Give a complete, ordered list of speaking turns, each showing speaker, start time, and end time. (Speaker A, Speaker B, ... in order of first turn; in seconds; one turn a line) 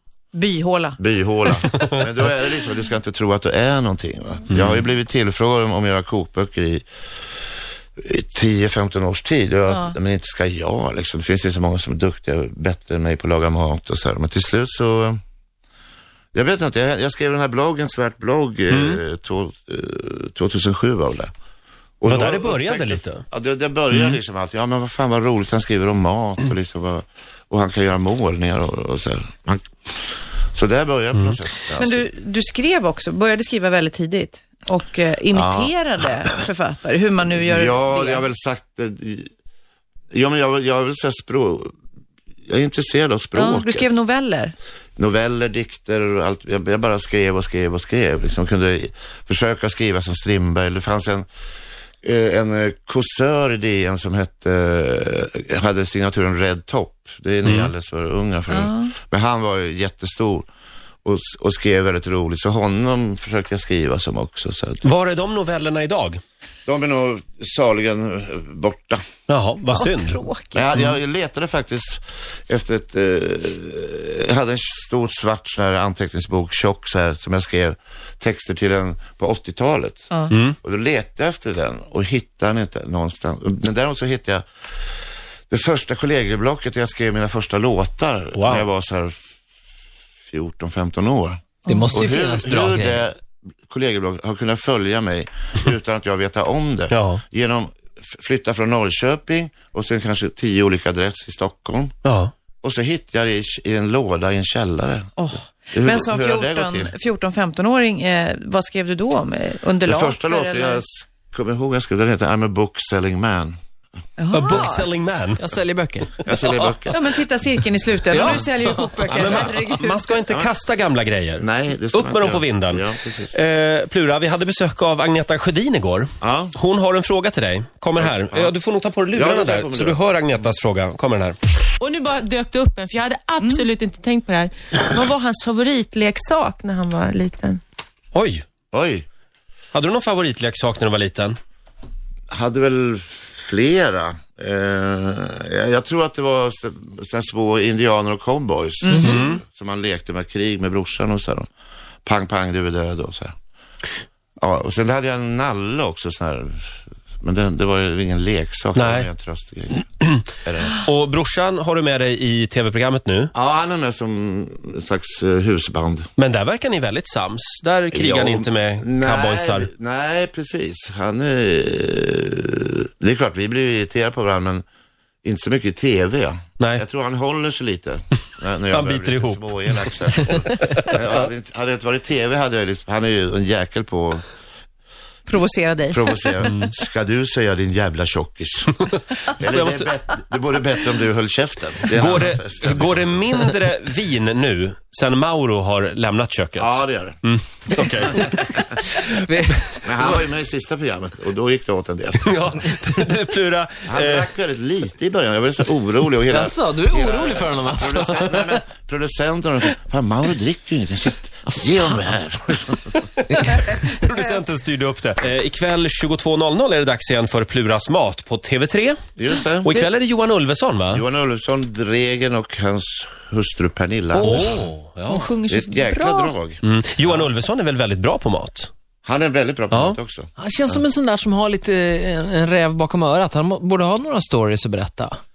Speaker A: 0.3-1.0
Speaker B: 1.0-6.8
Speaker C: 4.5-4.8
Speaker B: 8.0-15.2
Speaker A: 9.7-9.9
Speaker B: 16.3-21.3
Speaker C: 18.7-19.0
Speaker B: 22.0-32.1
Speaker C: 22.1-23.2
Speaker C: 23.9-24.2
Speaker A: 31.8-38.2
Speaker B: 35.3-35.7
Speaker B: 37.4-39.3
Speaker B: 40.1-41.7
Speaker B: 42.5-43.9
Speaker A: 43.3-44.5
Speaker B: 45.0-51.2
Speaker B: 52.0-60.5
Speaker C: 57.4-57.7
Speaker A: 58.5-58.9
Speaker B: 61.0-64.8
Speaker C: 64.8-66.2
Speaker B: 66.7-69.0
Speaker C: 69.3-70.2
Speaker A: 69.7-70.6
Speaker B: 70.5-80.1
Speaker C: 80.3-80.5
Speaker B: 80.6-84.4
Speaker B: 85.5-89.2
Speaker C: 88.3-88.6
Speaker B: 90.3-91.4
Speaker D: 91.7-93.0
Speaker A: 91.7-92.0
Speaker B: 91.9-102.0
Speaker C: 96.9-97.2
Speaker C: 102.0-102.3
Speaker B: 102.6-105.2
Speaker A: 105.2-110.8
Speaker B: 105.7-106.9
Speaker B: 109.8-113.5
Speaker A: 114.2-114.9
Speaker C: 114.3-115.4
Speaker D: 115.4-116.1
Speaker B: 116.2-117.0
Speaker A: 116.9-120.2
Speaker D: 118.1-119.5
Speaker C: 119.1-131.4
Speaker B: 121.4-123.4
Speaker B: 126.2-126.5
Speaker B: 128.0-128.5
Speaker B: 129.1-130.4
Speaker E: 131.8-137.6
Speaker A: 133.4-133.6
Speaker C: 138.1-138.4
Speaker B: 138.7-139.1
Speaker C: 139.7-141.4
Speaker B: 142.3-151.5
Speaker D: 148.9-149.2
Speaker C: 148.9-149.4
Speaker B: 152.0-153.3
Speaker B: 154.4-160.8
Speaker C: 158.8-159.1
Speaker C: 160.0-160.2
Speaker C: 160.8-163.3
Speaker B: 163.3-166.1
Speaker C: 166.2-169.7
Speaker B: 167.9-174.6
Speaker B: 175.2-184.2
Speaker C: 178.7-181.1
Speaker A: 185.3-186.2
Speaker B: 185.9-188.8
Speaker C: 186.4-186.7
Speaker B: 189.4-193.5
Speaker C: 189.4-189.9
Speaker C: 191.9-198.3
Speaker B: 196.6-197.2
Speaker D: 198.1-200.2
Speaker B: 199.8-202.4
Speaker C: 202.2-204.3
Speaker B: 203.8-213.1
Speaker D: 206.3-208.6
Speaker D: 211.5-212.0
Speaker C: 213.2-219.0
Speaker D: 213.3-213.7
Speaker B: 219.2-219.9
Speaker C: 219.6-221.0
Speaker B: 220.9-224.5
Speaker D: 224.2-224.7
Speaker C: 224.2-225.3
Speaker A: 225.1-226.3
Speaker B: 225.5-227.3
Speaker C: 226.6-228.7
Speaker B: 229.0-230.8
Speaker C: 229.7-230.0
Speaker D: 230.4-235.2